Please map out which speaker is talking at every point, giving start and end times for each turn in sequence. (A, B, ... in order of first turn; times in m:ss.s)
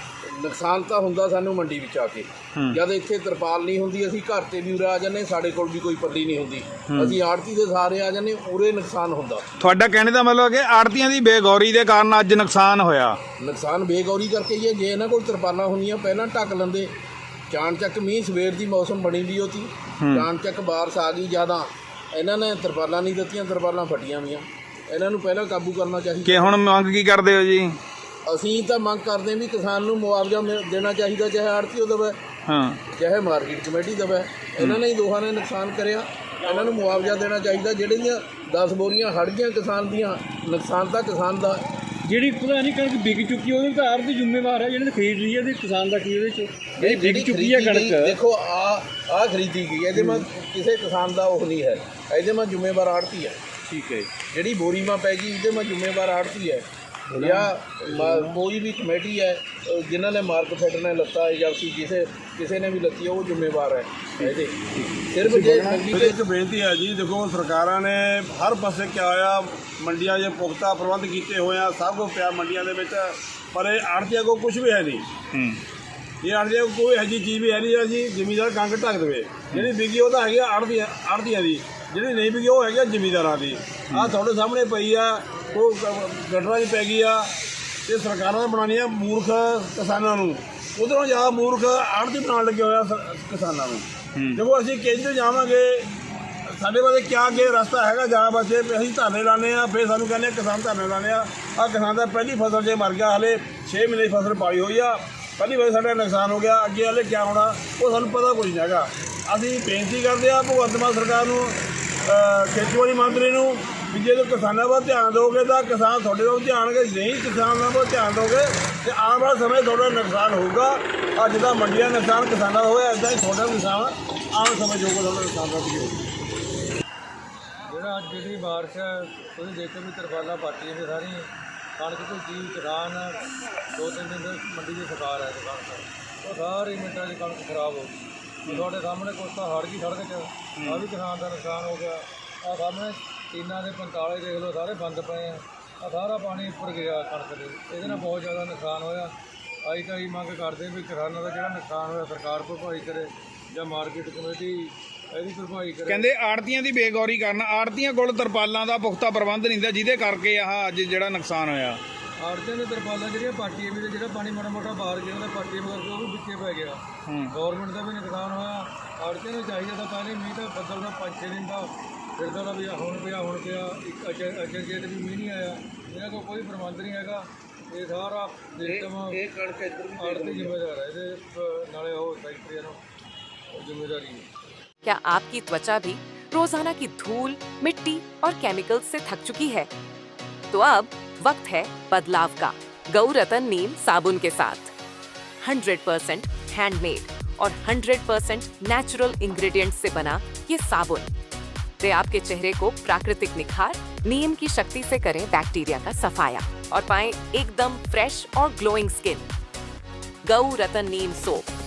0:00.2-0:09.4 A
0:06.9-0:07.2 B
0:09.6-0:13.2 B
0:13.4-0:16.9 A
0:17.5-0:26.5 A
0:20.0-0:20.2 B
0:26.2-0:27.8 B
0:28.2-0:32.2 A
0:32.4-0:32.8 B
0:32.9-0:41.6 A
0:42.0-0:48.2 C
0:46.8-0:53.4 A
0:49.9-0:50.2 C
0:53.7-0:54.0 C
0:54.1-1:06.2 A
0:57.1-0:57.4 B
0:58.0-0:58.3 B
1:05.2-1:05.8 B
1:05.9-1:15.0 D
1:15.3-1:15.6 B
1:16.2-1:27.3 D
1:27.8-1:35.9 D
1:34.2-1:34.4 B
1:36.5-2:06.1 D
2:07.7-2:13.2 E
2:13.7-2:17.9 E
2:18.4-2:29.1 E
2:20.6-2:20.8 B
2:29.7-2:36.1 E
2:35.9-2:41.8 B
2:42.2-2:59.2 E
2:58.6-3:00.6 A
3:00.0-3:02.8 E
3:03.5-3:04.3 E
3:04.8-3:09.7 F
3:10.5-3:14.7 F
3:15.4-3:21.1 F
3:21.8-3:29.2 F
3:30.2-3:31.4 F